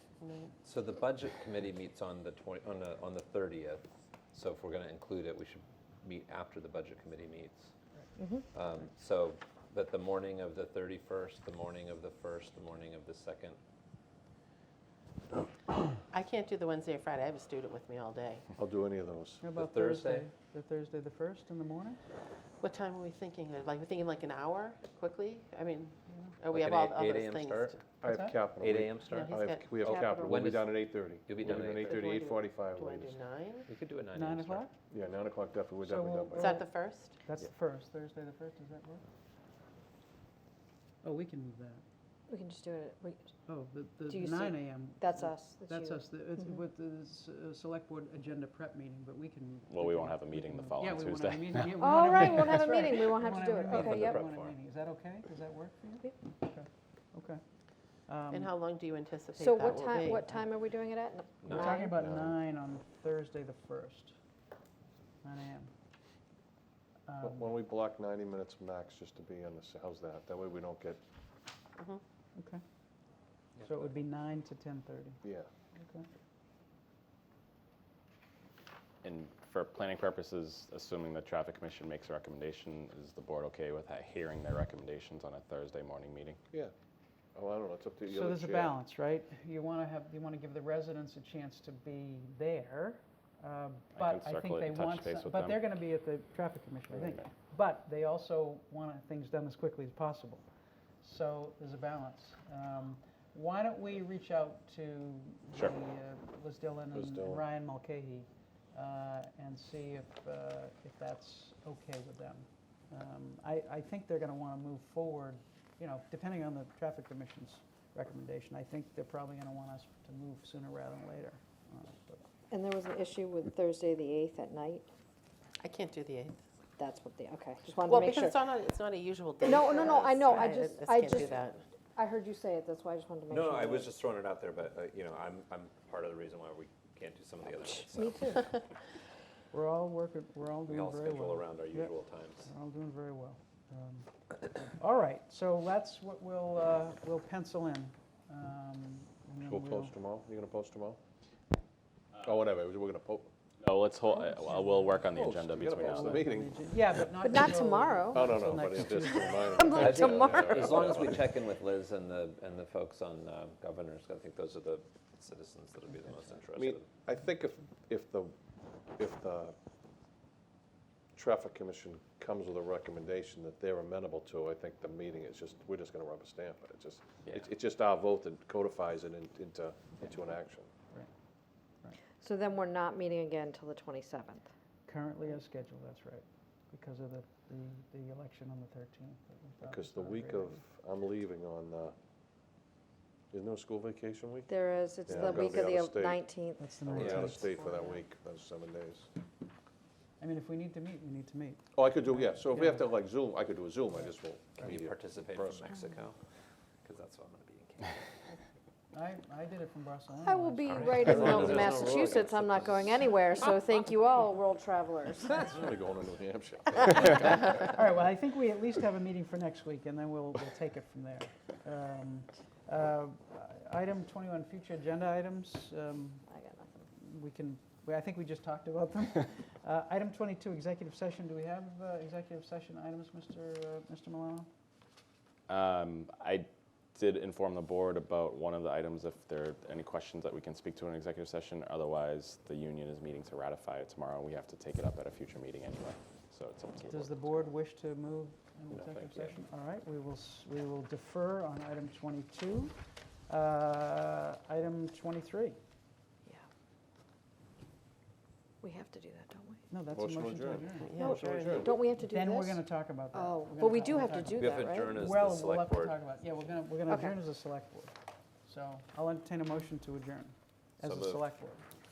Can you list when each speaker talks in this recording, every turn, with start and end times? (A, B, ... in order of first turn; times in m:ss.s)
0:00.2-0:00.6 A
0:00.6-0:07.7 B
0:08.2-0:08.5 C
0:08.5-0:13.6 B
0:16.1-0:18.5 A
0:18.6-0:19.5 D
0:19.4-0:22.0 E
0:19.6-0:20.3 B
0:22.6-0:27.8 A
0:26.1-0:26.4 E
0:26.5-0:27.8 B
0:28.0-0:33.2 D
0:28.1-0:28.4 E
0:28.6-0:29.4 B
0:29.1-0:29.7 A
0:29.6-0:30.5 C
0:30.2-0:32.0 B
0:31.8-0:33.7 A
0:33.7-0:34.6 B
0:34.2-0:34.7 E
0:34.9-0:36.6 D
0:35.8-0:36.7 E
0:36.4-0:37.2 A
0:37.2-0:39.0 E
0:41.0-0:41.8 E
0:42.3-0:43.3 C
0:43.5-0:57.4 E
0:44.1-0:46.0 C
0:49.7-0:51.8 F
0:51.7-0:54.2 C
0:53.7-0:54.6 B
0:58.1-0:58.6 E
0:58.3-1:00.4 A
0:59.4-1:02.0 C
1:01.4-1:01.8 B
1:01.5-1:04.2 E
1:02.0-1:02.4 D
1:05.2-1:05.7 E
1:07.1-1:07.5 E
1:07.2-1:11.0 D
1:12.4-1:12.6 E
1:13.6-1:15.2 E
1:15.2-1:15.5 D
1:15.8-1:16.1 E
1:19.0-1:26.4 F
1:27.4-1:28.8 D
1:28.1-1:40.4 E
1:34.0-1:35.6 F
1:41.0-2:02.2 E
1:46.9-1:47.4 D
2:02.5-2:04.9 C
2:05.6-2:06.4 A
2:06.8-2:08.4 C
2:07.8-2:11.6 A
2:09.4-2:11.4 C
2:12.0-2:14.0 C
2:13.3-2:18.6 B
2:17.9-2:18.5 C
2:19.5-2:29.9 E
2:20.7-2:22.5 B
2:29.4-2:31.0 D
2:32.2-2:33.3 D
2:33.6-2:36.3 F
2:34.1-2:39.9 E
2:35.1-2:36.6 D
2:37.2-2:41.2 C
2:38.1-2:41.4 D
2:39.7-2:46.9 B
2:46.6-2:48.4 D
2:49.0-2:49.6 D
2:51.2-3:00.7 D
3:02.2-3:04.5 C
3:04.9-3:10.6 E
3:09.6-3:12.0 D
3:13.3-3:14.5 D
3:14.5-3:17.2 C
3:15.1-3:16.2 D
3:16.6-3:18.0 E
3:16.8-3:19.1 D
3:17.0-3:17.4 B
3:20.2-3:22.8 E
3:21.7-3:25.7 D
3:24.6-3:26.2 B
3:26.8-3:28.0 B
3:28.9-3:31.7 E
3:30.2-3:35.6 C
3:30.8-3:32.8 D
3:35.4-3:37.4 D
3:37.1-3:46.3 E
3:46.3-3:46.8 C
3:47.0-3:54.5 E
3:55.5-4:07.4 F
4:06.9-4:15.6 E
4:08.7-4:09.4 B
4:18.6-4:19.6 C
4:19.7-4:20.9 E
4:19.9-4:21.8 D
4:20.9-4:21.6 A
4:20.9-4:24.9 C
4:21.9-4:31.6 E
4:24.4-4:26.2 B
4:26.9-4:27.2 C
4:30.8-4:31.2 B